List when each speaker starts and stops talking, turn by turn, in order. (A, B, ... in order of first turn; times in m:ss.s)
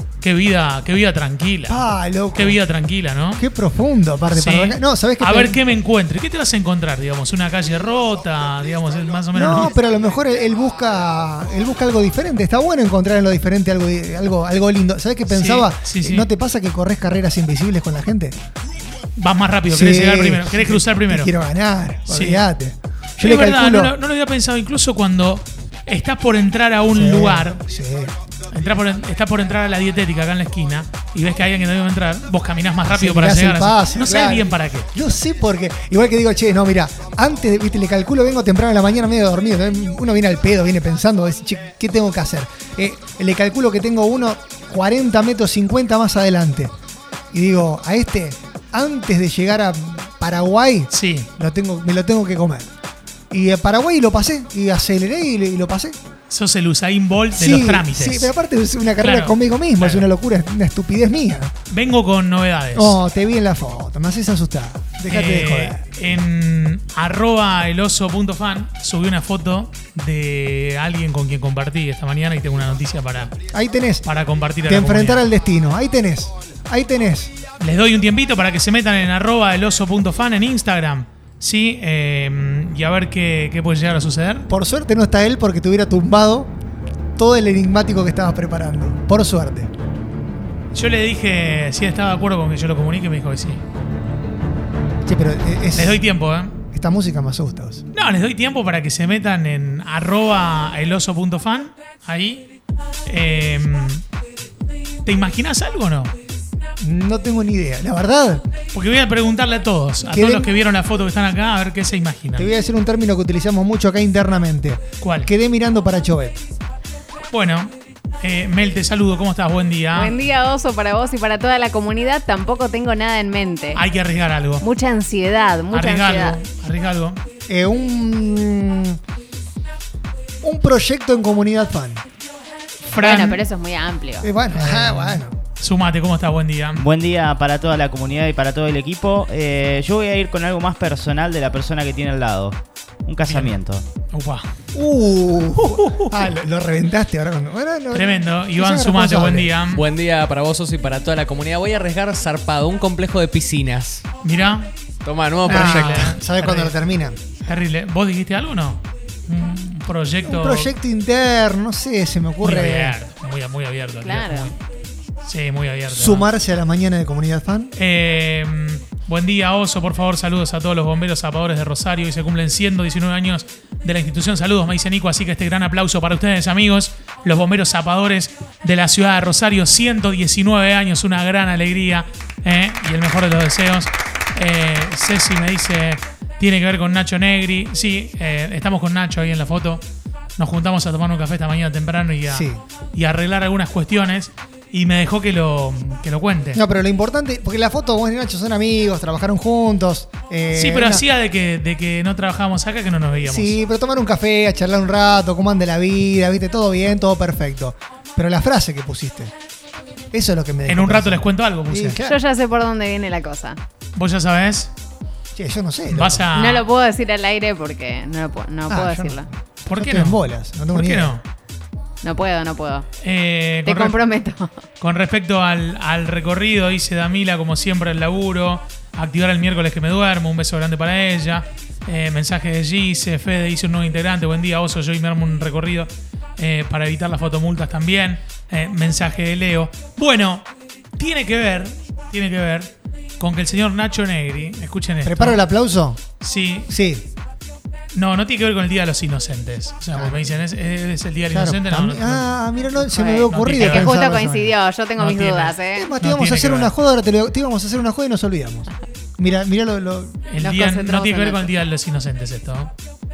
0:00.2-0:01.8 A
0:01.7-0:02.6 B
0:02.3-0:03.4 A
0:03.4-0:05.6 B
0:04.3-0:09.7 A
0:09.3-0:18.4 B
0:15.3-0:16.3 A
0:19.2-0:21.3 A
0:19.7-0:23.9 B
0:22.1-0:22.4 A
0:23.2-0:27.6 A
0:26.9-0:28.1 B
0:28.5-0:34.9 A
0:32.9-0:46.7 B
0:47.3-0:52.7 B
0:50.9-0:51.3 A
0:53.3-0:56.0 B
0:56.3-0:58.3 A
0:57.4-1:01.5 B
0:59.0-1:00.1 A
1:01.7-1:03.0 A
1:02.7-1:05.8 B
1:05.1-1:13.3 A
1:13.5-1:14.0 B
1:14.0-1:15.2 A
1:14.7-1:17.3 B
1:17.6-1:24.5 A
1:24.5-1:26.5 B
1:27.2-1:29.7 B
1:30.7-1:33.6 A
1:35.0-1:36.0 B
1:35.7-1:36.5 A
1:36.7-1:37.8 B
1:37.9-1:42.5 A
1:43.1-1:44.0 A
1:45.0-1:46.1 A
1:46.8-1:48.4 B
1:48.7-1:52.5 A
1:50.0-1:50.5 B
1:52.4-1:56.4 B
1:55.0-1:55.3 A
1:57.3-2:00.2 A
1:59.9-2:03.8 C
2:03.7-2:04.6 A
2:04.6-2:06.4 C
2:05.7-2:07.2 A
2:07.5-2:09.0 B
2:10.4-2:12.0 B
2:12.9-2:13.4 A
2:12.9-2:14.3 C
2:14.2-2:15.3 B
2:14.5-2:16.8 A
2:16.8-2:23.8 D
2:23.2-2:23.6 A
2:24.1-2:24.5 A
2:24.7-2:29.5 B
2:25.6-2:26.3 A
2:27.9-2:29.8 A
2:29.7-2:34.0 E
2:34.2-2:34.7 A
2:35.0-2:36.1 E
2:35.4-2:37.2 B
2:35.4-2:36.7 A
2:37.4-2:40.7 A
2:40.2-2:43.0 B
2:42.4-2:44.6 A
2:44.0-2:44.5 C
2:45.2-2:46.3 A
2:45.9-2:47.7 B
2:47.7-3:09.8 A
3:10.4-3:16.6 A
3:12.3-3:12.6 B
3:16.5-3:21.0 B
3:20.5-3:23.5 A
3:23.2-3:29.3 B
3:30.1-3:32.2 B
3:30.6-3:32.0 A
3:32.0-3:33.6 C
3:33.9-3:34.7 A
3:35.3-3:36.2 B
3:35.9-3:36.7 A
3:36.3-3:39.2 C
3:38.7-3:41.1 B
3:39.6-3:41.2 A
3:42.0-3:42.8 C
3:43.0-3:44.0 A
3:43.6-3:44.5 C
3:44.8-4:05.4 A
4:05.0-4:06.0 B
4:06.2-4:06.7 A
4:06.7-4:07.1 B
4:07.9-4:14.0 A
4:09.9-4:10.3 B
4:11.3-4:14.5 B
4:13.0-4:15.9 C
4:15.0-4:16.7 A
4:15.7-4:20.2 B
4:20.3-4:22.7 A
4:20.4-4:21.5 C